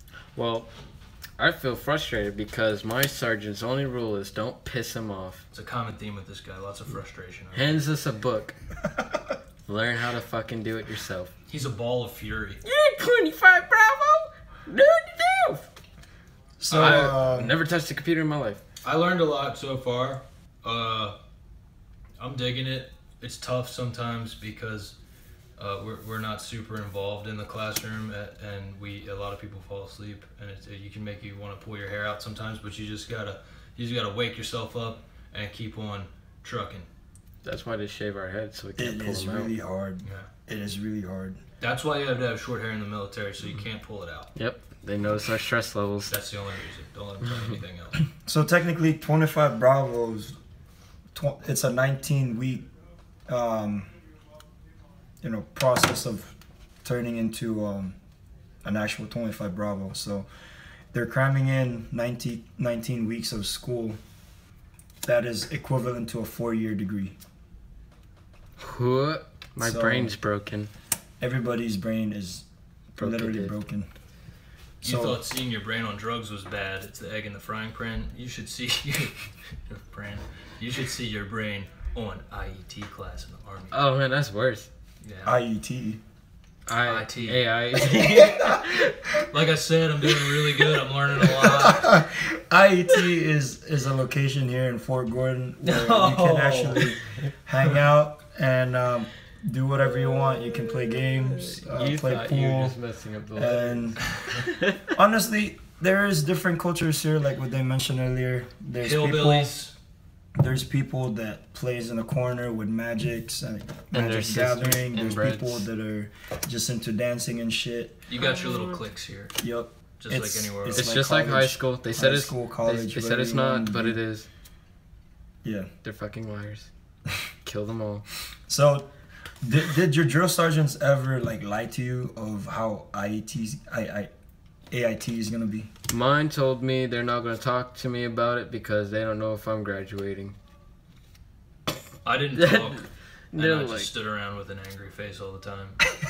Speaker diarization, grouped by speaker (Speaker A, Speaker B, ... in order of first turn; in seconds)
Speaker A: 0.3-0.7, 1.4-5.4, 7.5-8.6, 9.7-11.3, 12.6-15.7, 16.7-18.6, 37.4-39.5, 44.4-46.1, 68.6-70.7, 73.0-73.6, 83.7-84.7, 86.7-89.0, 101.7-104.8, 113.9-115.7, 120.8-124.3, 125.8-126.7, 127.5-128.1, 135.9-140.3, 142.3-142.8, 143.3-143.9
Speaker B: 5.5-7.8, 11.5-12.6, 16.7-17.1, 18.8-21.2, 22.2-25.0, 25.6-36.9, 40.0-40.3, 41.6-44.3, 46.1-48.0, 74.8-83.8, 85.0-85.4, 86.8-87.5, 89.3-91.9, 95.6-97.0, 108.8-109.8, 118.1-119.3, 120.0-120.9, 142.1-145.8
Speaker C: 16.6-17.6, 38.8-41.4, 48.2-50.4, 51.1-52.7, 53.3-53.9, 55.2-58.0, 58.6-60.3, 60.9-64.0, 65.0-67.2, 69.6-70.1, 71.2-73.9, 74.8-75.2, 85.2-86.0, 88.0-88.8, 91.3-102.8, 103.3-104.0, 104.9-109.5, 110.4-118.0, 119.4-124.0, 125.4-125.7, 128.5-128.9, 129.4-134.1, 134.7-135.7